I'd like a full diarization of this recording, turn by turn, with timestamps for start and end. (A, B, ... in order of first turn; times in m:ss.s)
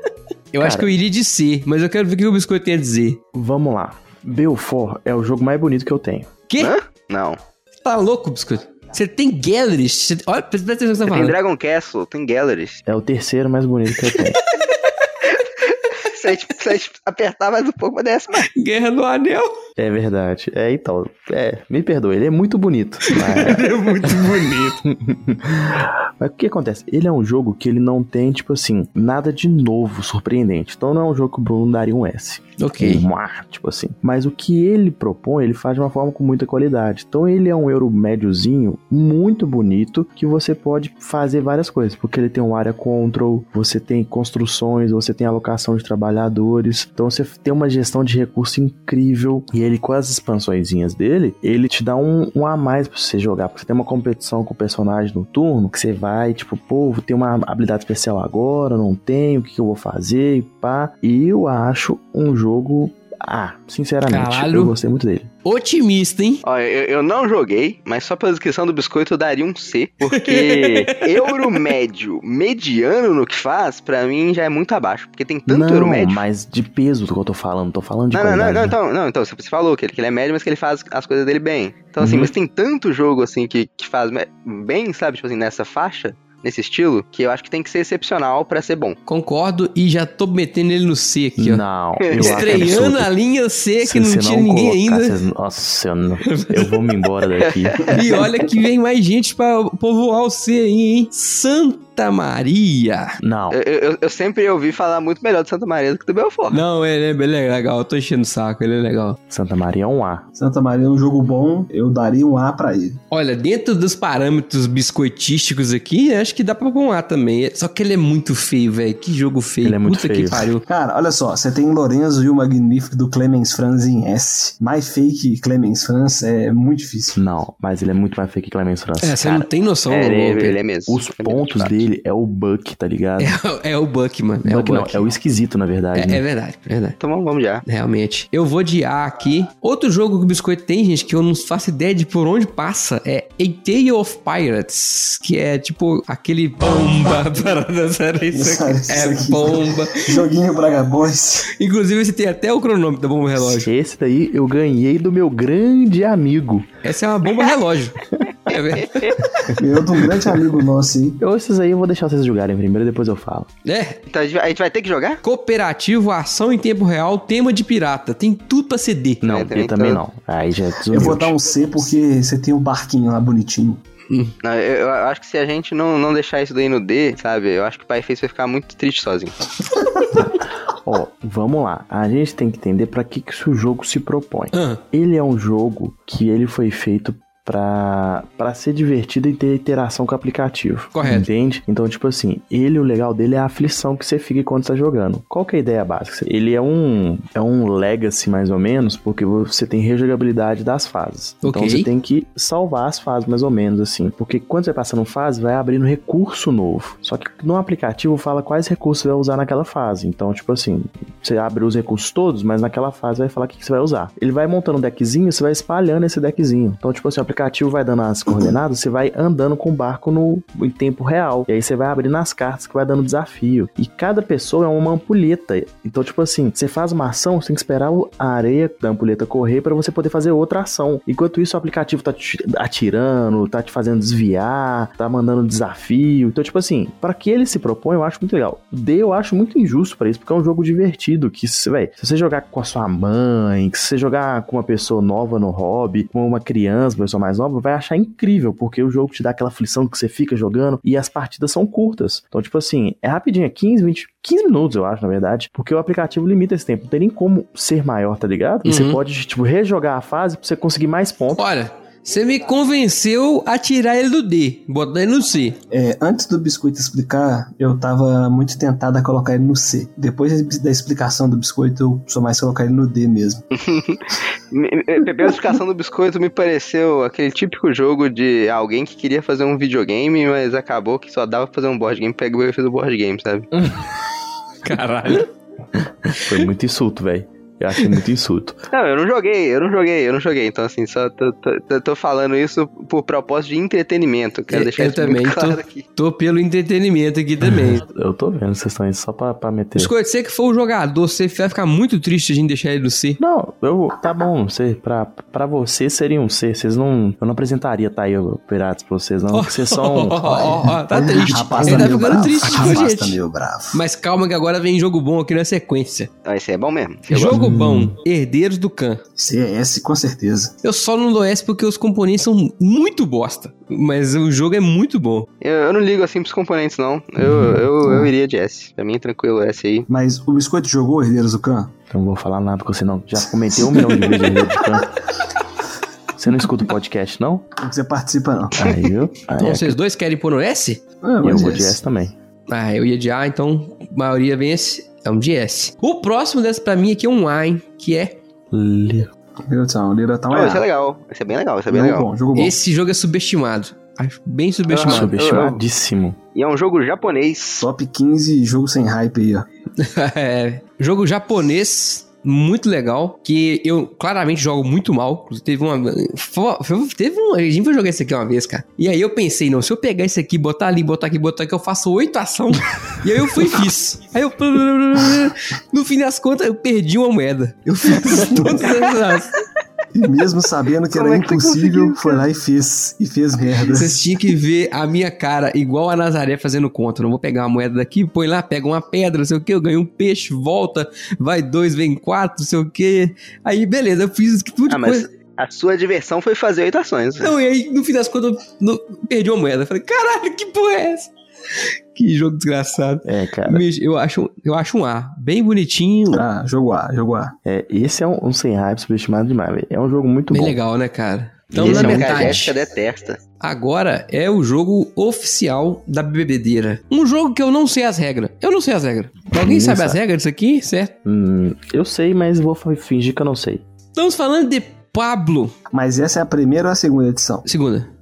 0:00.5-0:03.2 A
0:00.6-0:00.9 B
0:03.3-0:06.3 B
0:06.6-0:07.4 C
0:07.8-0:11.4 A
0:11.1-0:12.8 C
0:12.9-0:14.4 B
0:14.0-0:14.7 A
0:15.6-0:18.5 C
0:18.4-0:19.5 A
0:19.8-1:05.3 B
0:23.0-0:24.8 A
0:32.6-0:33.0 A
1:04.1-1:04.7 A
1:05.4-1:06.4 A
1:06.4-1:16.2 C
1:10.0-1:11.6 A
1:15.5-1:18.8 B
1:18.1-1:29.0 C
1:22.0-1:22.3 B
1:29.1-1:31.6 A
1:31.4-1:33.1 B
1:32.0-1:32.5 C
1:32.2-1:35.2 A
1:33.8-1:38.0 B
1:36.2-1:36.8 A
1:37.4-1:38.0 C
1:37.9-1:43.2 A
1:43.2-1:43.6 B
1:43.5-1:46.6 C
1:46.5-1:49.2 A
1:49.3-1:50.2 B
1:50.4-1:53.0 D
1:53.1-2:00.6 A
1:59.6-2:00.5 B
2:00.6-2:07.2 D
2:07.1-2:09.5 B
2:09.0-2:10.6 A
2:09.9-2:11.8 C
2:10.9-2:13.4 B
2:13.2-2:15.0 A
2:14.5-2:16.2 B
2:15.9-2:17.0 A
2:17.0-2:17.6 C
2:17.6-2:30.2 A
2:28.3-2:31.5 D
2:31.4-2:33.7 A
2:33.4-2:36.7 B
2:36.8-2:39.2 A
2:38.8-2:39.2 C
2:39.4-2:41.2 D
2:41.2-2:43.5 B
2:43.6-2:44.0 A
2:44.1-2:45.2 C
2:45.2-2:49.2 A
2:49.2-2:51.4 B
2:49.2-2:50.0 C
2:50.9-2:53.8 D
2:54.4-2:59.4 C
3:00.1-4:21.4 B
3:04.5-3:04.8 A
3:10.9-3:11.2 A
3:21.4-3:21.9 A
4:18.6-4:19.0 A
4:21.3-4:25.6 A
4:25.7-4:33.4 D
4:33.5-4:43.5 C
4:44.6-4:45.3 A
4:46.1-4:48.6 B
4:48.7-4:55.8 C
4:54.5-4:57.8 A
4:57.4-4:59.9 B
4:59.8-5:03.2 A
5:03.2-5:10.6 B
5:09.3-5:13.2 A
5:10.6-5:13.8 D
5:11.5-5:12.8 B
5:13.7-5:16.1 A
5:16.2-5:17.4 C
5:17.1-5:19.0 A
5:17.1-5:17.9 B
5:19.2-5:20.5 D
5:20.6-5:25.3 A
5:25.4-5:29.9 C
5:27.2-5:28.1 B
5:29.9-5:31.7 D
5:31.9-5:34.9 B
5:33.7-5:34.3 D
5:36.2-5:37.5 B
5:37.6-5:38.6 D
5:38.6-5:39.8 B
5:39.4-5:40.8 A
5:41.0-5:41.8 D
5:41.2-5:42.1 B
5:42.5-5:48.2 A
5:48.5-5:49.1 B
5:49.5-5:50.6 D
5:50.3-5:52.1 C
5:51.7-5:52.6 D
5:52.3-5:55.1 A
5:54.8-5:56.2 B
5:54.8-5:55.5 C
5:55.0-5:55.6 D
5:56.3-5:57.6 C
5:57.6-5:59.4 D
5:59.8-6:19.3 A
6:17.9-6:18.8 D
6:19.9-6:24.2 D
6:21.0-6:22.2 A
6:21.0-6:21.5 C
6:23.7-6:35.1 A
6:34.7-6:37.3 C
6:37.2-6:46.2 A
6:43.0-6:43.6 B
6:46.1-6:47.3 D
6:47.4-6:50.6 B
6:50.3-6:52.5 A
6:51.5-6:52.4 B
6:51.5-6:53.2 C
6:53.4-7:00.9 A
6:59.3-7:00.0 B
7:01.0-7:03.6 B
7:04.0-7:05.5 A
7:05.7-7:07.4 D
7:07.4-7:07.9 A